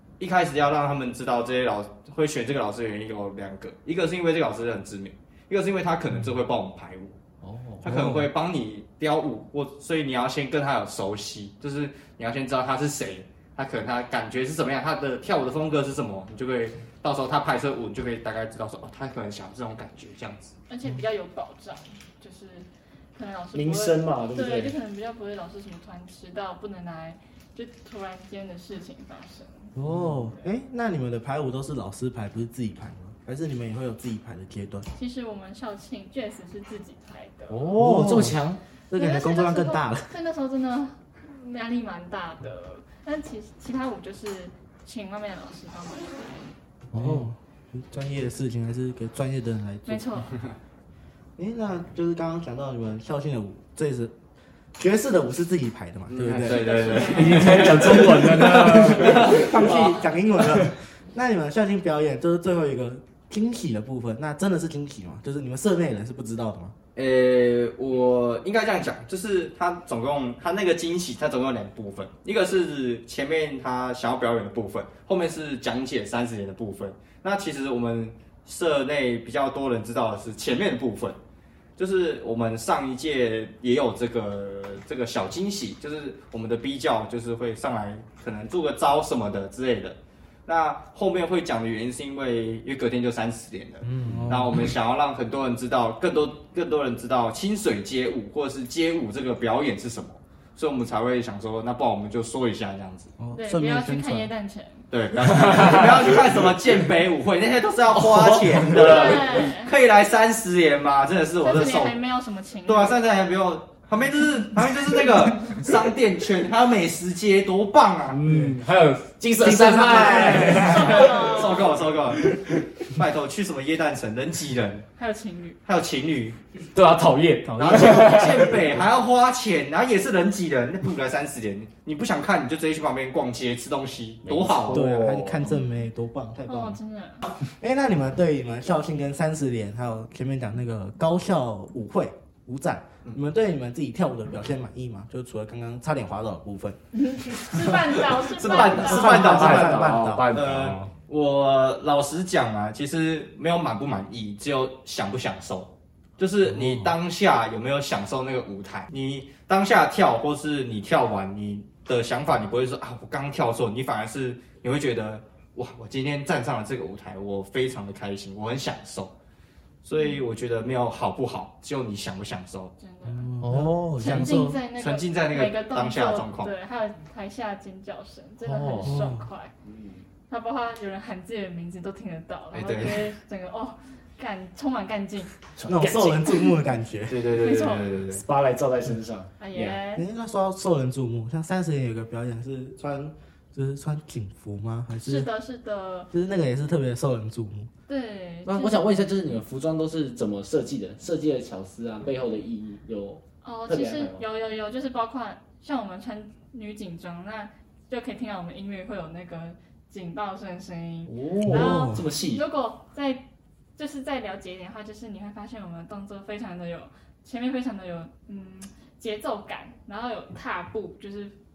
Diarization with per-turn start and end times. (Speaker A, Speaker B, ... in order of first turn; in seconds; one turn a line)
Speaker A: 0.2-7.2
Speaker B: 7.4-8.2
Speaker A: 7.8-20.5
Speaker C: 20.7-29.7
Speaker B: 23.5-24.8
Speaker D: 29.7-34.9
Speaker B: 29.9-30.2
Speaker C: 34.9-37.7
Speaker B: 37.5-38.6
Speaker D: 37.7-40.1
Speaker C: 38.9-46.5
Speaker B: 46.9-47.3
Speaker D: 46.9-50.3
Speaker C: 49.9-50.3
Speaker D: 51.4-54.1
Speaker D: 54.8-56.6
Speaker A: 56.1-59.7
Speaker B: 56.2-59.8
Speaker C: 56.5-57.9
Speaker D: 57.9-66.7
Speaker A: 66.9-81.2
Speaker A: 81.8-103.1
Speaker D: 93.8-94.7
Speaker D: 103.2-104.3
Speaker C: 103.3-104.9
Speaker A: 104.9-112.0
Speaker B: 107.9-109.2
Speaker C: 108.7-109.7
Speaker C: 111.4-113.0
Speaker A: 112.6-118.2
Speaker B: 118.1-121.4
Speaker D: 118.3-118.5
Speaker D: 119.4-120.9
Speaker A: 119.9-124.9
Speaker C: 120.4-121.7
Speaker C: 125.0-125.6
Speaker A: 125.6-126.4
Speaker B: 126.7-128.6
Speaker D: 127.4-128.8
Speaker A: 127.6-135.5
Speaker B: 134.2-134.8
Speaker D: 134.7-146.8
Speaker C: 135.4-135.9
Speaker C: 136.4-137.3
Speaker C: 146.9-149.4
Speaker D: 147.4-150.3
Speaker A: 148.2-169.1
Speaker B: 148.8-150.9
Speaker A: 169.8-172.7
Speaker C: 169.9-170.2
Speaker C: 172.8-173.3
Speaker D: 173.0-174.6
Speaker B: 173.4-174.2
Speaker C: 174.0-179.5
Speaker A: 174.7-176.5
Speaker B: 178.4-178.9
Speaker D: 178.8-179.3
Speaker B: 179.6-180.1
Speaker C: 180.3-185.3
Speaker A: 182.5-183.1
Speaker B: 185.6-186.4
Speaker D: 185.6-187.2
Speaker A: 187.1-188.2
Speaker C: 187.4-188.0
Speaker B: 188.1-189.8
Speaker C: 189.4-190.0
Speaker D: 189.9-195.3
Speaker C: 195.0-196.1
Speaker D: 196.1-197.7
Speaker C: 197.9-199.0
Speaker B: 198.4-204.2
Speaker C: 203.4-221.3
Speaker B: 211.1-212.4
Speaker D: 211.4-212.1